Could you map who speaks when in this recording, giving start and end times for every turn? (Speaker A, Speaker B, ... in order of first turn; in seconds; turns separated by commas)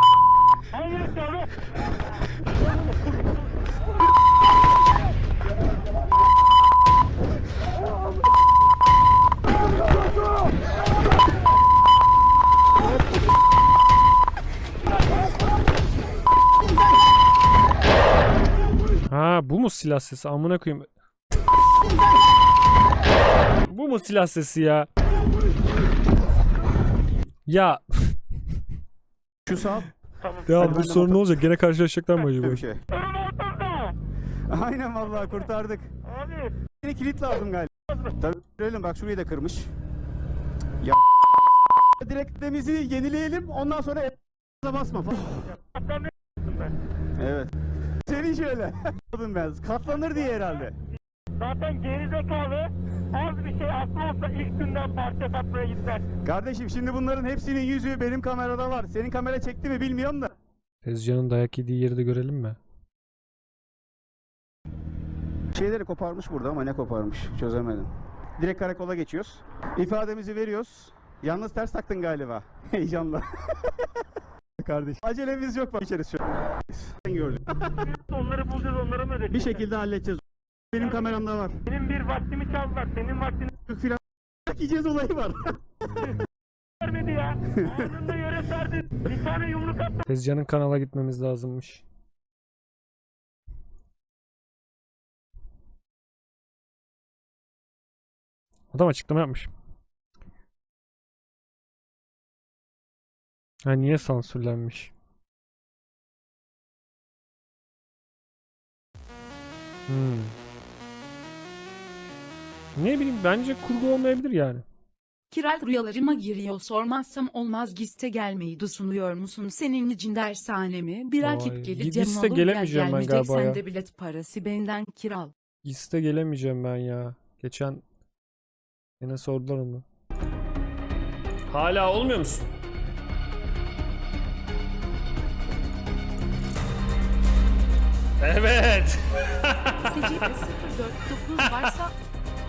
Speaker A: 0.7-1.5, Speaker B: 19.1-20.9, Speaker B: 23.7-24.9, Speaker B: 27.5-28.2, Speaker C: 29.4-29.9, Speaker A: 30.2-30.9, Speaker B: 30.4-32.6, Speaker C: 30.6-31.2, Speaker C: 32.4-32.8, Speaker A: 32.9-34.0, Speaker C: 34.5-35.9, Speaker A: 36.0-36.5, Speaker C: 36.8-39.7, Speaker A: 37.9-38.1, Speaker C: 42.0-45.4, Speaker A: 45.4-46.7, Speaker C: 47.2-47.5, Speaker C: 48.0-50.8, Speaker A: 51.4-56.0, Speaker C: 56.2-60.3, Speaker B: 60.8-62.6, Speaker C: 65.5-73.9, Speaker C: 74.6-77.7, Speaker A: 77.8-79.7, Speaker C: 79.3-81.6, Speaker A: 80.8-83.5, Speaker C: 83.7-86.0, Speaker A: 86.8-90.0, Speaker B: 90.1-91.8, Speaker B: 98.7-99.5, Speaker B: 103.6-104.9, Speaker B: 109.9-110.3, Speaker B: 112.8-114.6, Speaker D: 115.3-125.3, Speaker B: 121.2-123.6, Speaker B: 125.6-127.8, Speaker B: 129.0-129.8, Speaker B: 131.5-132.4, Speaker B: 138.2-140.4, Speaker D: 139.9-141.9, Speaker B: 141.3-141.8